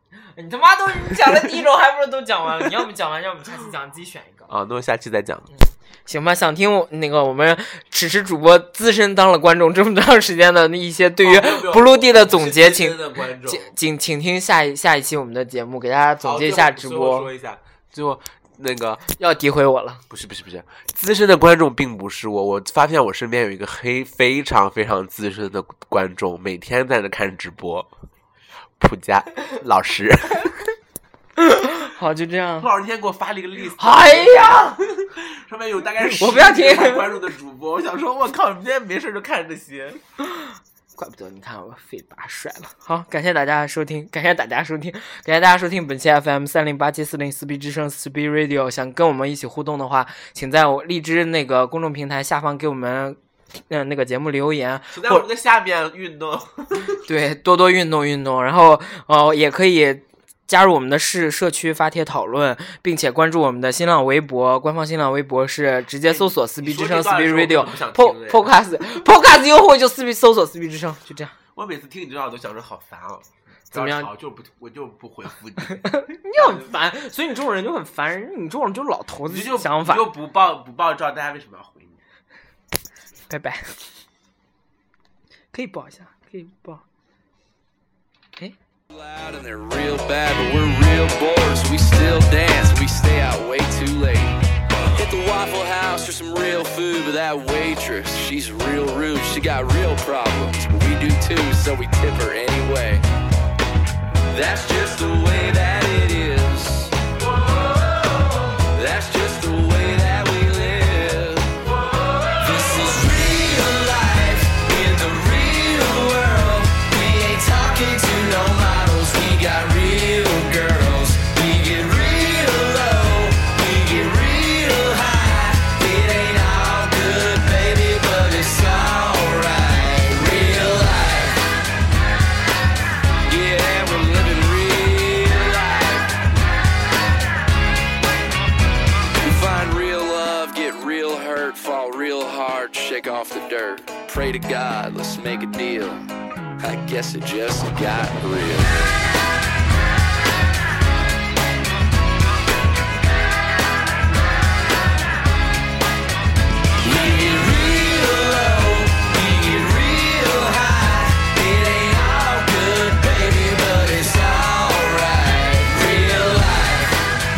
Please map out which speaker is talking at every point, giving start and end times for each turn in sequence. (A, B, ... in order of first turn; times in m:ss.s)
0:00.3-0:04.5 A
0:04.5-0:05.5 B
0:05.5-0:17.3 A
0:11.2-0:13.7 B
0:16.2-0:19.0 B
0:19.2-0:20.0 A
0:20.1-0:27.9 B
0:28.8-0:30.7 B
0:31.4-0:32.7 A
0:32.6-0:40.0 B
0:33.8-0:34.8 A
0:36.0-0:37.2 A
0:40.4-0:55.3 A
0:54.9-0:57.0 B
0:57.0-1:11.4 A
1:06.1-1:08.5 B
1:11.5-1:16.7 B
1:13.7-1:14.1 A
1:15.8-1:20.1 A
1:19.3-1:22.0 B
1:23.3-1:23.8 A
1:25.5-1:26.8 A
1:28.9-1:34.3 C
1:34.9-1:43.0 C
1:44.3-1:51.7 C
1:52.3-2:11.5 C
2:13.2-2:16.2 C
2:19.2-2:26.1 C
2:26.6-2:29.0 C
2:36.8-2:47.1 C